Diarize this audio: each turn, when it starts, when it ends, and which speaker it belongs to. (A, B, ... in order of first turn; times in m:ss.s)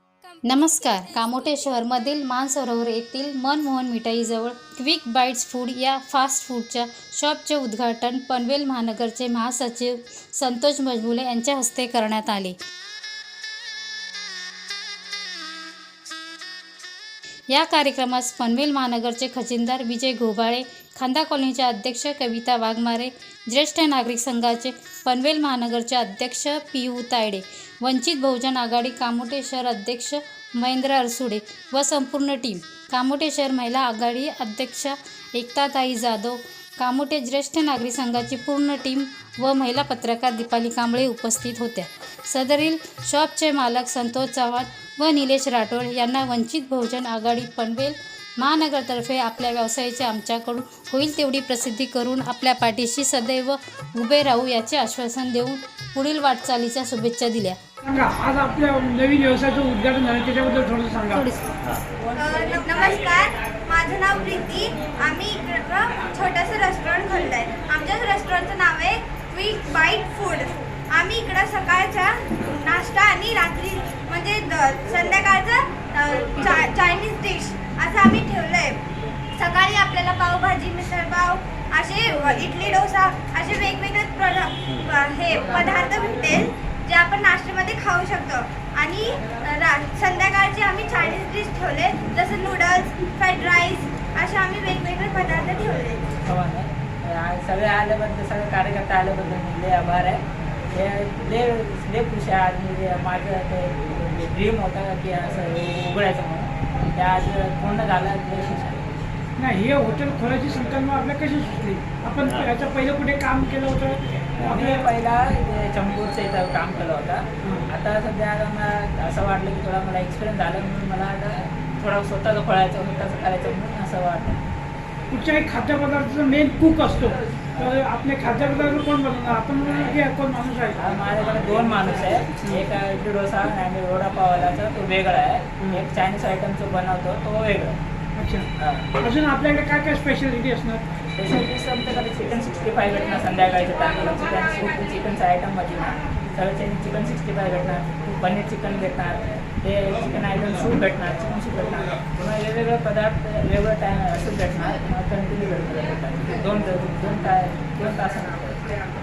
0:00.4-0:12.5 A
0:17.5-0:57.6 A
0:57.8-1:01.3 B
1:01.1-1:01.5 A
1:02.2-1:18.8 C
1:19.4-1:36.0 C
1:36.2-1:40.2 D
1:40.7-1:48.8 D
1:49.4-1:54.8 B
1:54.4-2:04.4 D
2:05.1-2:10.8 B
2:10.8-2:17.8 D
2:18.2-2:18.5 B
2:18.6-2:18.9 D
2:19.0-2:20.8 B
2:21.2-2:38.7 D